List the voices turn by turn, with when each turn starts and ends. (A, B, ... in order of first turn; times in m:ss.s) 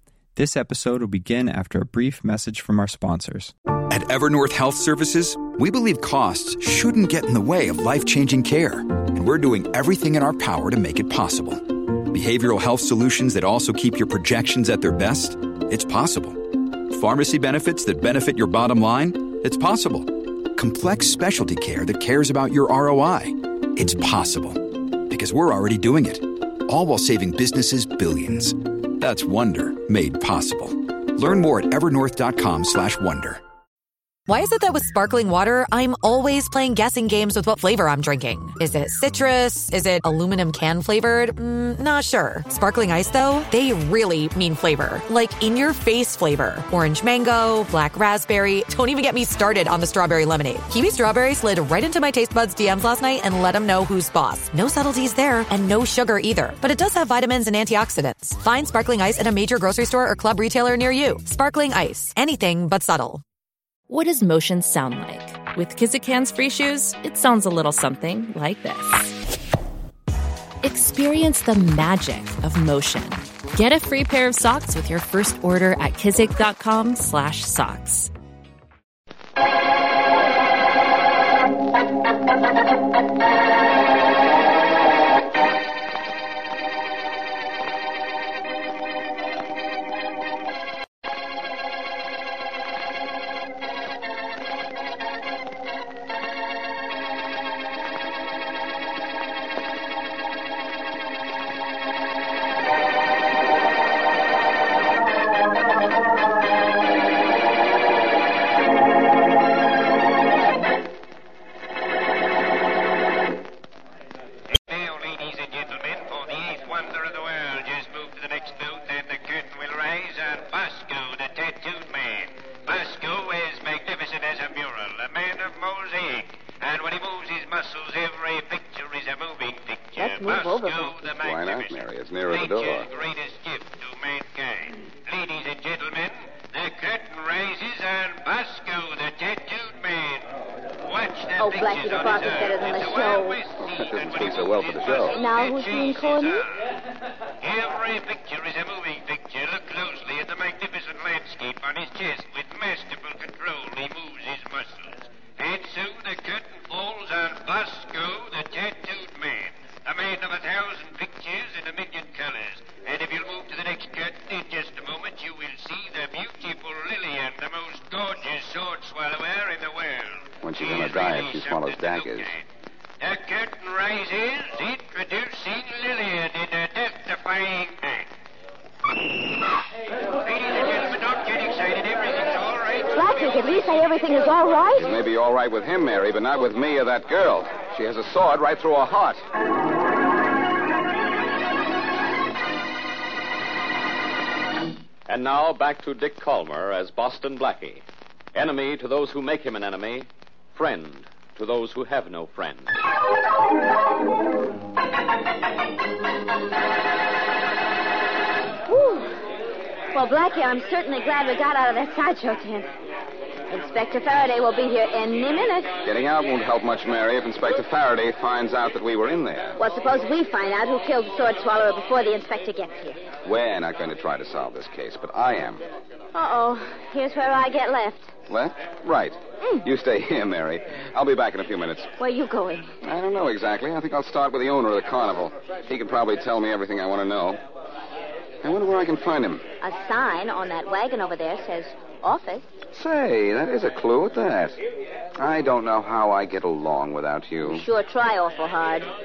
0:00.4-0:03.5 A
0:03.9-0:33.4 B
0:34.3-1:03.2 C
1:03.9-1:09.2 D
1:10.6-1:18.1 D
1:54.5-2:11.8 E
2:10.0-2:11.0 F
2:11.2-2:12.9 G
2:12.3-2:20.3 E
2:20.8-2:26.7 E
2:21.4-2:23.4 F
2:23.6-2:25.2 G
2:25.1-2:26.4 F
2:27.4-2:52.5 E
2:50.4-2:52.3 G
2:53.0-2:58.1 E
3:00.0-3:03.9 E
3:02.9-3:04.9 F
3:04.8-3:09.2 G
3:15.1-3:17.8 H
3:18.3-3:22.7 H
3:28.7-3:29.2 F
3:29.9-3:32.7 F
3:33.5-3:35.8 F
3:35.8-3:39.6 G
3:39.6-3:43.0 F
3:43.2-3:45.6 G
3:46.1-3:48.1 F
3:48.3-3:51.9 G
3:49.4-3:49.7 F
3:52.0-3:52.8 F
3:52.8-3:57.4 G
3:58.4-3:59.4 G
3:59.6-4:02.6 F
4:02.7-4:04.6 G
4:05.2-4:07.6 G
4:07.4-4:08.9 F